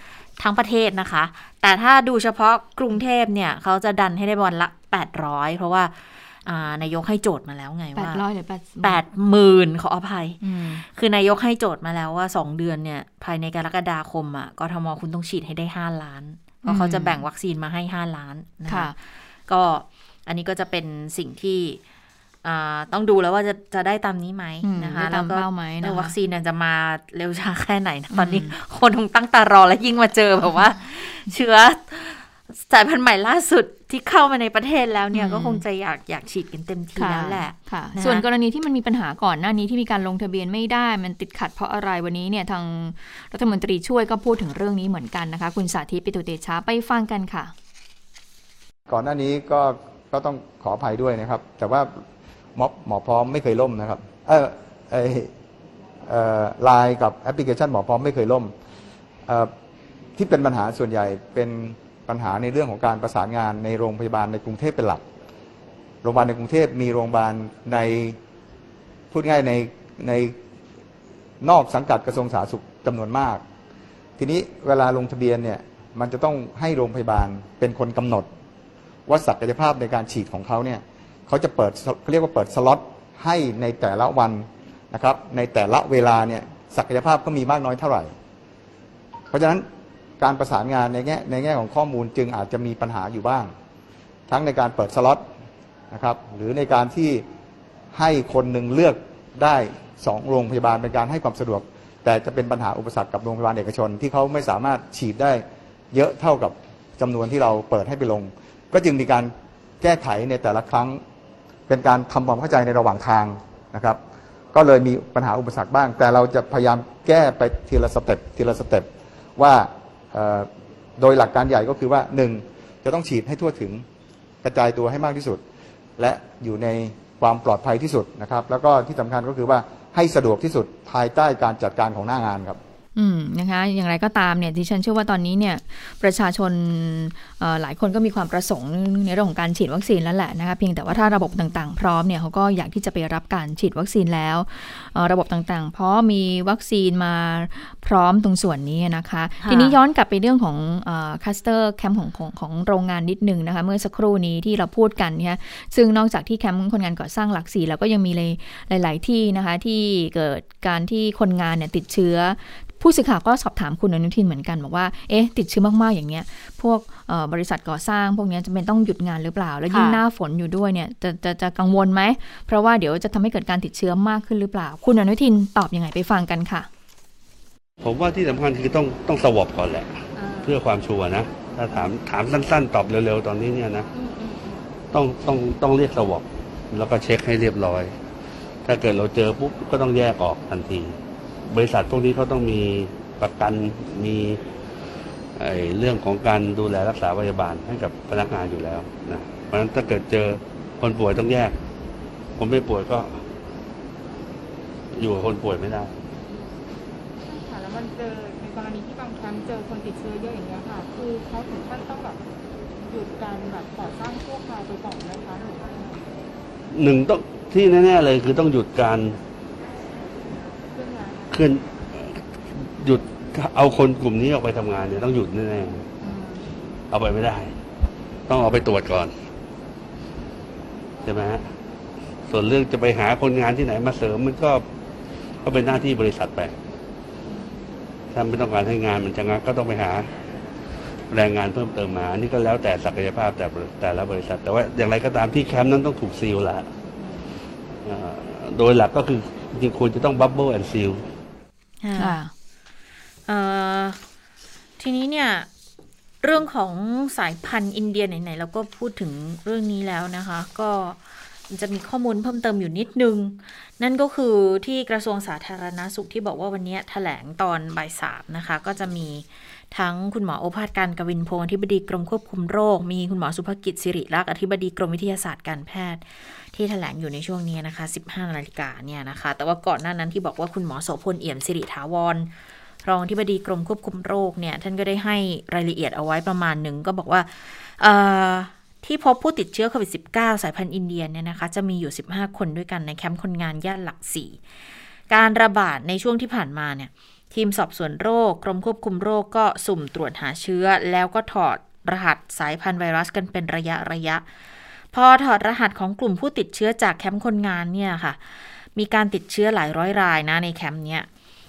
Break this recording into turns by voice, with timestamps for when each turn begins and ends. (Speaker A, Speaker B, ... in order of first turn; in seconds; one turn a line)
Speaker A: 0.4-8.2
Speaker B: 7.9-9.0
Speaker A: 8.8-21.8
Speaker B: 10.4-10.8
Speaker B: 16.7-17.2
Speaker A: 22.4-38.2
Speaker B: 24.6-26.1
Speaker B: 28.1-28.5
Speaker B: 35.1-35.6
Speaker B: 37.0-47.5
Speaker C: 48.9-52.0
Speaker C: 52.5-55.3
Speaker C: 56.0-58.5
Speaker C: 60.1-65.0
Speaker C: 66.0-68.2
Speaker C: 69.1-70.4
Speaker C: 71.4-73.4
Speaker C: 74.2-78.3
Speaker C: 79.1-88.1
Speaker C: 89.3-89.7
Speaker C: 90.2-93.5
Speaker C: 94.3-95.2
Speaker C: 95.9-97.2
Speaker C: 97.9-111.0
Speaker C: 111.7-114.0
Speaker C: 114.5-123.8
Speaker C: 124.4-125.4
Speaker C: 126.0-132.6
Speaker B: 132.9-176.7
Speaker A: 149.4-149.7
Speaker A: 169.7-170.0
Speaker D: 177.8-183.9
Speaker E: 180.1-180.6
Speaker E: 183.9-184.8
Speaker D: 184.9-187.9
Speaker D: 188.6-190.9
Speaker D: 191.5-194.4
Speaker D: 195.4-201.6
Speaker D: 202.4-203.2
Speaker D: 204.9-205.9
Speaker E: 207.2-212.2
Speaker E: 212.7-216.1
Speaker D: 216.7-219.2
Speaker E: 220.7-221.3
Speaker D: 221.3-222.2
Speaker D: 222.8-225.9
Speaker E: 226.0-226.6
Speaker D: 226.9-227.5
Speaker D: 228.3-229.1
Speaker D: 231.0-231.4
Speaker D: 232.3-234.6
Speaker D: 235.4-236.5
Speaker E: 237.3-237.7
Speaker D: 238.1-240.1
Speaker D: 241.1-246.7
Speaker D: 247.8-251.0
Speaker A: 251.8-252.2
Speaker B: 252.0-252.3
Speaker A: 253.3-254.0
Speaker A: 254.8-255.5
Speaker A: 256.2-282.3
Speaker A: 282.8-294.4
Speaker A: 295.1-304.2
Speaker A: 304.9-311.1